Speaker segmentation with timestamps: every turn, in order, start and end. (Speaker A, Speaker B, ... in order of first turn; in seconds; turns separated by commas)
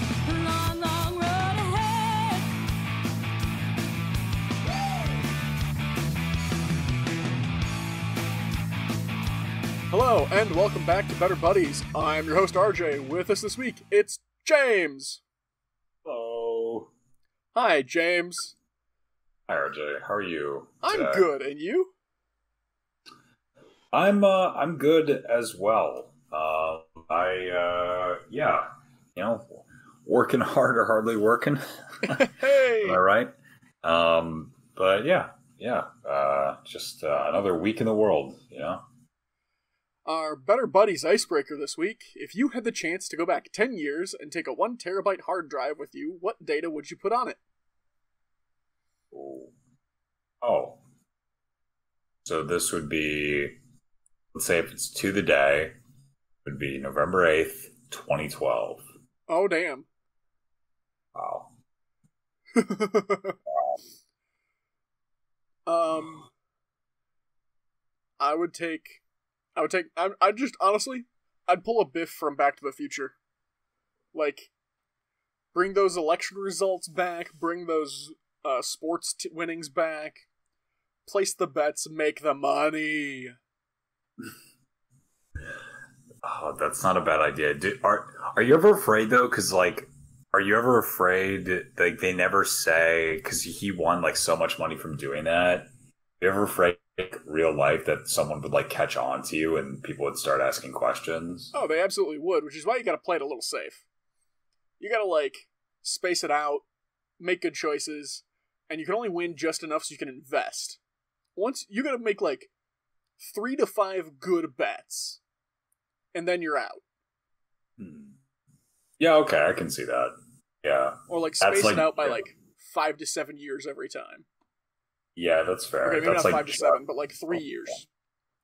Speaker A: 0.2-2.5, Speaker B: 9.9-15.2, Speaker C: 16.0-16.9, Speaker B: 17.5-18.5, Speaker C: 19.5-21.2, Speaker B: 20.8-21.9, Speaker C: 23.9-32.3, Speaker B: 32.0-33.0, Speaker C: 32.8-33.3, Speaker C: 33.8-38.8, Speaker B: 40.0-47.4, Speaker C: 49.1-49.5, Speaker C: 50.4-50.8, Speaker C: 52.2-53.6, Speaker C: 54.3-55.8, Speaker C: 56.4-58.8, Speaker B: 59.3-59.9, Speaker C: 61.1-61.5, Speaker B: 62.5-63.4, Speaker C: 63.5-63.8, Speaker B: 65.7-66.3, Speaker B: 68.2-69.0, Speaker B: 69.5-73.1, Speaker B: 74.1-74.5, Speaker B: 75.5-80.2, Speaker B: 81.0-83.3, Speaker C: 86.2-95.7, Speaker C: 96.2-101.5, Speaker B: 101.5-103.8, Speaker B: 104.8-106.6, Speaker B: 107.2-110.8, Speaker B: 111.3-112.5, Speaker B: 113.2-115.2, Speaker B: 116.1-116.8, Speaker C: 117.8-118.2, Speaker C: 119.0-122.2, Speaker B: 121.1-124.2, Speaker C: 125.2-126.8, Speaker B: 125.8-127.9